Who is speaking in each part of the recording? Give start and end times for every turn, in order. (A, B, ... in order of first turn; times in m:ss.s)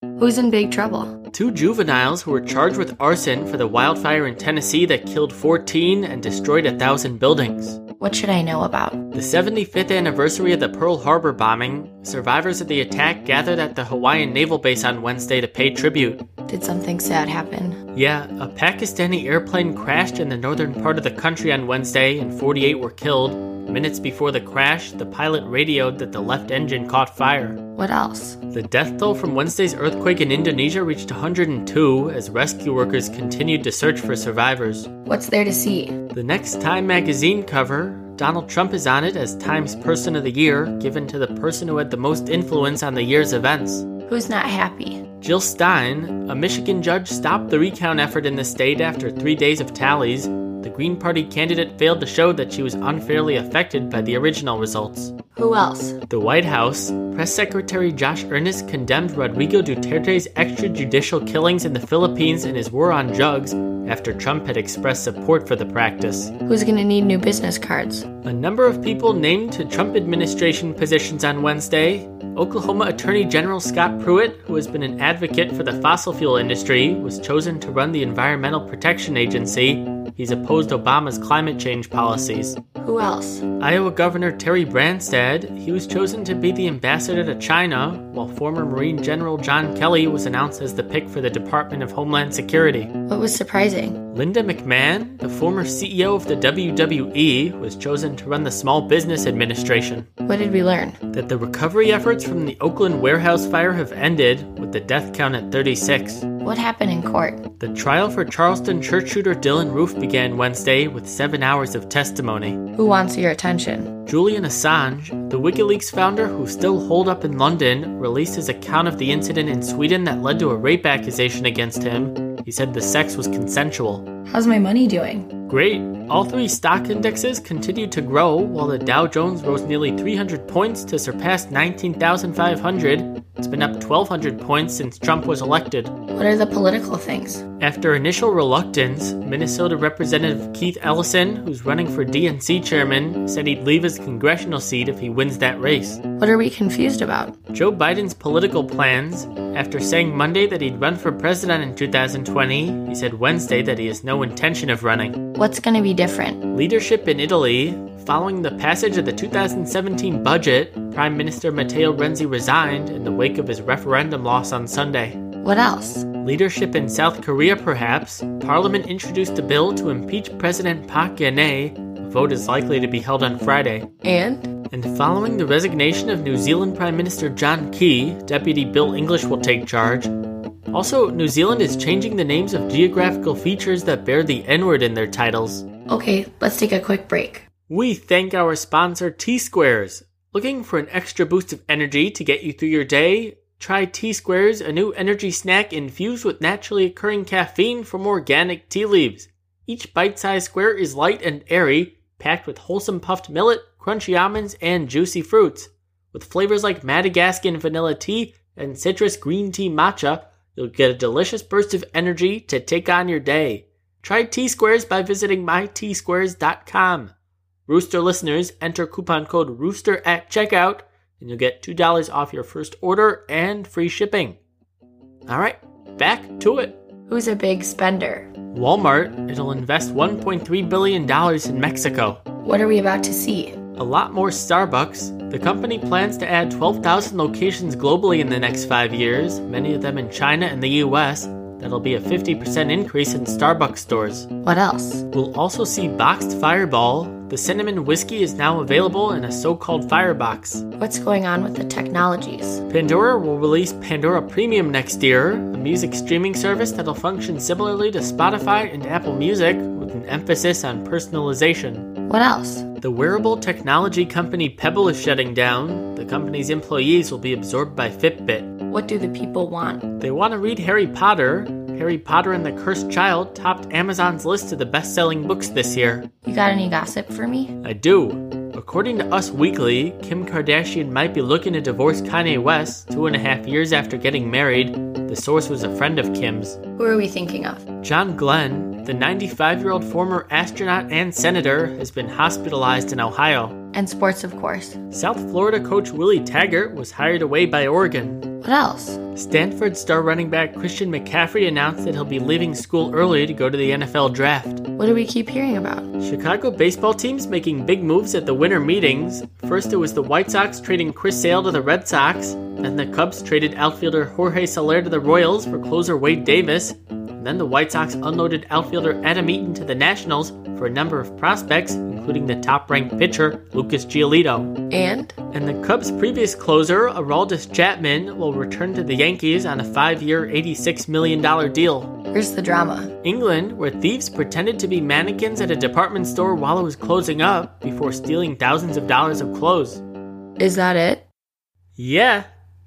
0:00.2-0:01.2 A
0:01.3-0:07.8 B
0:08.0-0:09.1 A
0:09.1-0:16.2 B
0:16.5-0:17.8 A
0:17.9-0:27.6 B
0:27.8-0:28.4 A
0:28.5-0:34.9 B
0:35.0-0:36.0 A
0:36.1-0:43.9 B
0:44.1-0:45.0 A
0:45.2-0:55.1 B
0:55.4-0:56.0 A
0:56.1-1:06.3 B
1:06.4-1:08.1 A
1:08.2-1:22.6 B
1:22.8-1:23.4 A
1:23.6-1:32.9 B
1:33.1-1:34.0 A
1:34.1-1:40.1 B
1:40.2-1:41.0 A
1:41.1-1:46.3 B
1:46.4-1:47.4 A
1:47.6-1:52.7 B
1:52.8-1:54.0 A
1:54.1-2:04.1 B
2:04.3-2:05.3 A
2:05.5-2:15.9 B
2:16.1-2:17.4 A
2:17.6-2:26.0 B
2:26.2-2:27.3 A
2:27.5-2:35.2 B
2:35.3-2:36.5 A
2:36.5-2:45.3 B
2:45.4-2:46.1 A
2:46.2-2:53.9 B
2:54.0-2:54.5 A
2:54.7-3:00.1 B
3:00.7-3:05.7 B
3:05.9-3:07.4 A
3:07.7-3:37.1 B
3:37.7-3:44.4 B
3:45.3-3:46.8 B
3:47.1-3:48.3 A
3:48.5-3:52.2 B
3:52.4-3:53.6 A
3:53.8-4:04.3 B
4:04.4-4:05.0 A
4:05.1-4:10.7 B
4:10.8-4:12.6 A
4:12.7-4:21.9 B
4:22.1-4:22.6 A
4:22.8-4:28.6 B
4:28.7-4:29.9 A
4:30.0-4:36.1 B
4:36.2-4:37.6 A
4:37.6-4:46.6 B
4:46.8-4:47.6 A
4:47.8-4:53.6 B
4:53.7-4:54.8 A
4:54.9-4:58.3 B
4:58.4-4:59.0 A
4:59.1-5:04.6 B
5:04.8-5:05.9 A
5:06.0-5:24.6 B
5:24.7-5:25.1 A
5:25.3-5:32.0 B
5:32.1-5:32.9 A
5:33.0-5:39.8 B
5:40.4-5:41.0 A
5:41.8-5:42.3 B